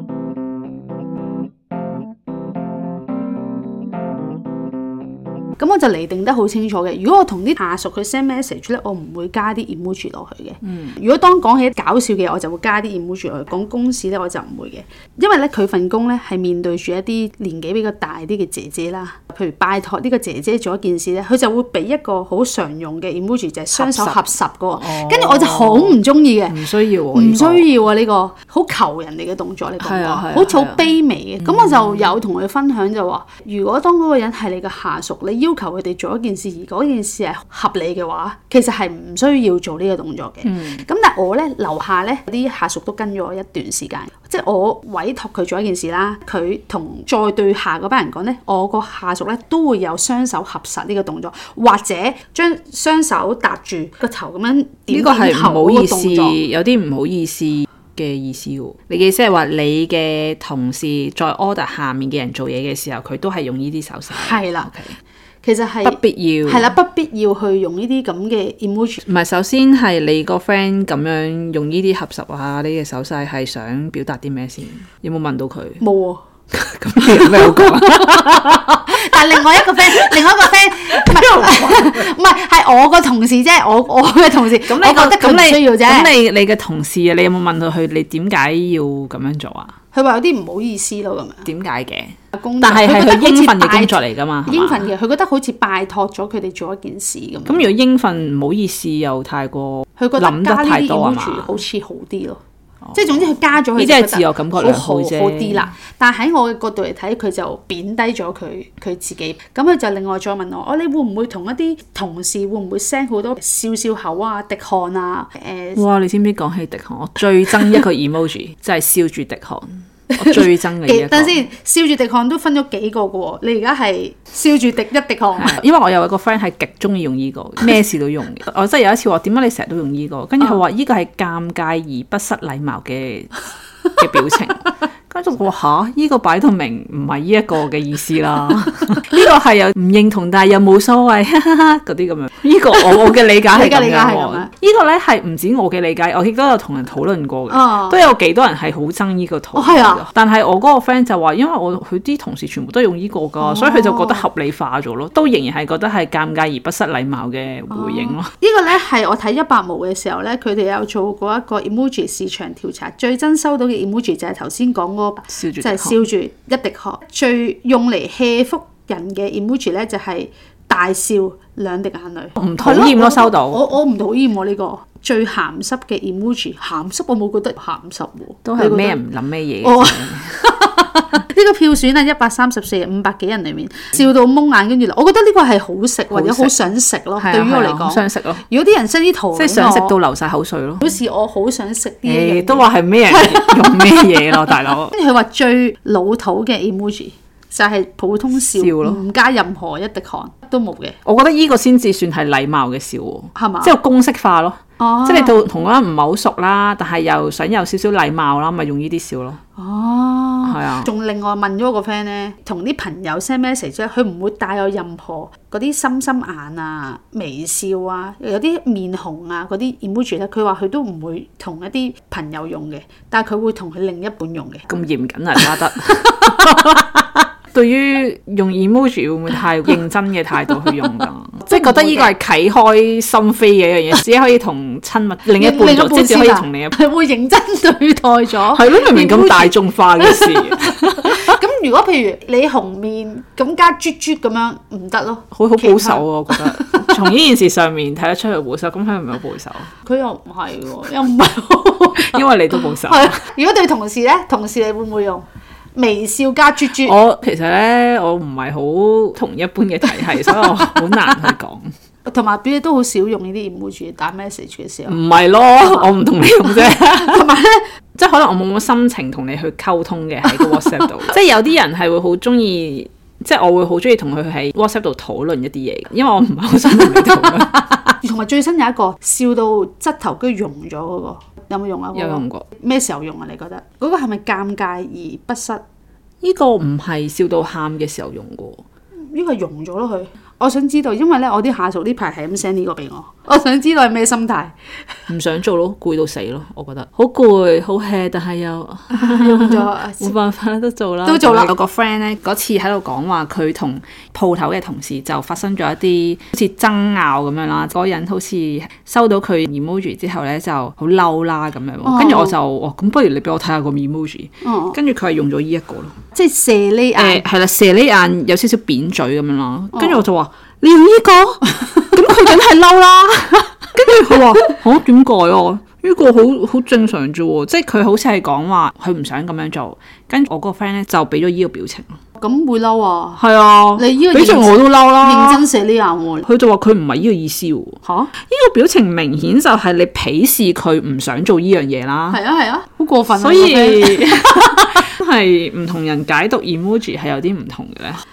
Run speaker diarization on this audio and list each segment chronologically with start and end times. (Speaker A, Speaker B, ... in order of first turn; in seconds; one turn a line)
Speaker A: 5.6-56.4
Speaker B: 10.6-11.0
Speaker B: 23.7-26.0
Speaker B: 26.5-27.6
Speaker B: 29.8-30.9
Speaker B: 31.4-32.1
Speaker B: 40.4-40.8
Speaker B: 54.9-64.9
Speaker A: 64.1-64.7
Speaker A: 65.4-69.0
Speaker B: 65.8-66.7
Speaker B: 69.0-75.8
Speaker A: 75.8-76.2
Speaker B: 76.5-79.0
Speaker A: 78.3-86.1
Speaker B: 81.0-81.9
Speaker B: 84.6-89.7
Speaker A: 89.9-91.5
Speaker B: 91.4-94.9
Speaker A: 92.3-97.7
Speaker B: 97.5-101.6
Speaker A: 100.0-102.4
Speaker A: 102.9-115.8
Speaker B: 103.1-105.7
Speaker B: 115.8-121.4
Speaker A: 120.1-125.6
Speaker B: 125.3-133.4
Speaker B: 133.9-158.3
Speaker A: 143.5-144.5
Speaker A: 147.5-148.0
Speaker A: 149.5-150.0
Speaker A: 153.4-154.2
Speaker A: 157.7-179.0
Speaker B: 165.3-166.0
Speaker B: 172.4-173.6
Speaker B: 178.4-180.4
Speaker A: 179.6-189.9
Speaker B: 186.1-186.5
Speaker B: 187.2-188.4
Speaker B: 189.3-190.9
Speaker A: 190.8-201.0
Speaker B: 192.0-194.9
Speaker B: 198.6-199.0
Speaker B: 201.1-209.4
Speaker A: 203.3-203.7
Speaker A: 204.8-205.4
Speaker A: 209.6-224.7
Speaker B: 210.4-210.9
Speaker B: 224.7-236.8
Speaker A: 226.2-226.8
Speaker A: 231.4-232.1
Speaker A: 235.3-247.1
Speaker B: 238.5-241.4
Speaker B: 245.3-249.7
Speaker A: 249.8-256.9
Speaker B: 251.9-253.2
Speaker B: 256.8-261.7
Speaker A: 262.1-265.0
Speaker B: 264.9-267.2
Speaker A: 265.6-265.9
Speaker A: 266.4-267.6
Speaker B: 267.9-278.0
Speaker A: 270.3-270.8
Speaker A: 278.0-285.6
Speaker B: 281.9-282.4
Speaker B: 286.2-288.6
Speaker A: 289.1-294.5
Speaker B: 295.1-315.9
Speaker A: 298.9-300.1
Speaker A: 301.0-301.5
Speaker A: 311.8-312.4
Speaker A: 314.4-314.8
Speaker A: 316.1-317.2
Speaker B: 316.9-331.9
Speaker A: 319.7-320.0
Speaker A: 332.2-333.2
Speaker B: 333.2-335.4
Speaker A: 333.8-336.3
Speaker B: 336.2-342.2
Speaker A: 337.8-338.1
Speaker A: 342.1-344.8
Speaker B: 343.1-348.0